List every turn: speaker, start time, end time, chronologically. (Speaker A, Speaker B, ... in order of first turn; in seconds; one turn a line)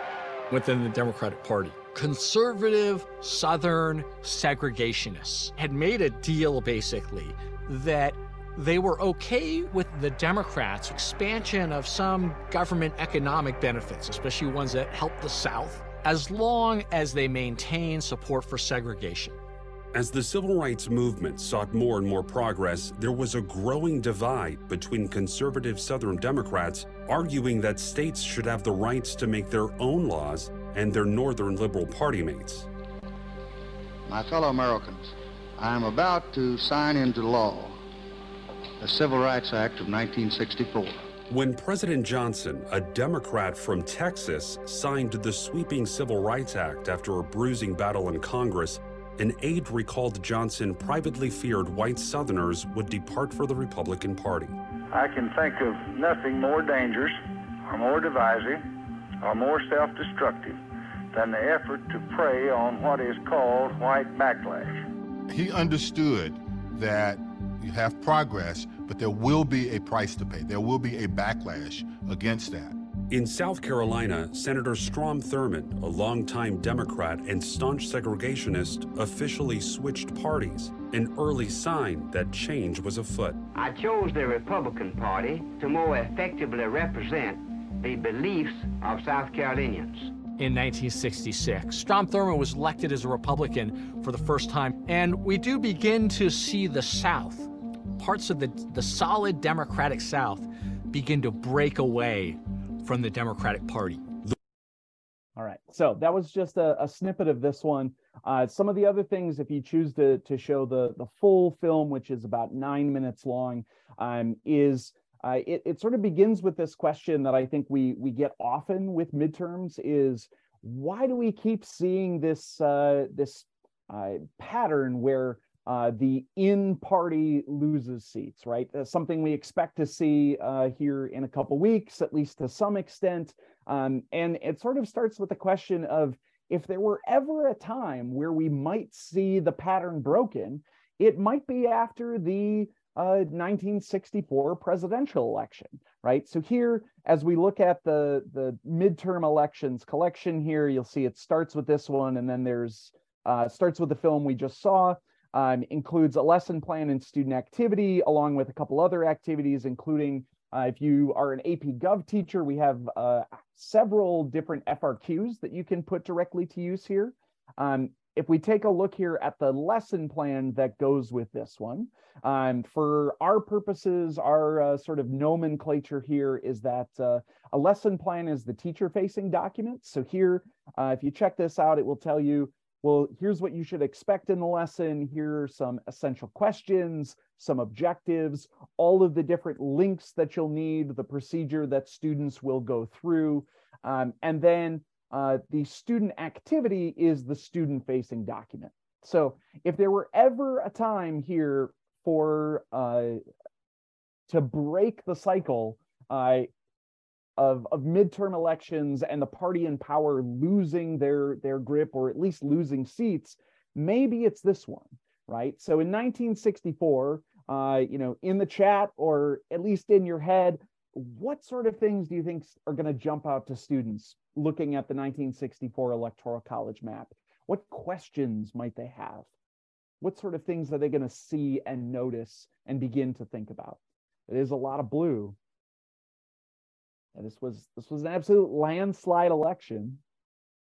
Speaker A: 0.5-19.4
Speaker B: 19.9-32.7
Speaker C: 34.1-37.8
Speaker C: 38.8-41.1
Speaker B: 41.3-54.6
Speaker D: 54.9-58.6
Speaker D: 59.2-60.6
Speaker D: 61.1-64.8
Speaker E: 65.3-72.8
Speaker B: 73.1-83.4
Speaker F: 83.5-90.2
Speaker A: 90.4-104.0
Speaker G: 105.4-203.2
Speaker G: 204.3-206.5
Speaker G: 207.4-229.3
Speaker G: 230.0-235.4
Speaker G: 237.2-240.0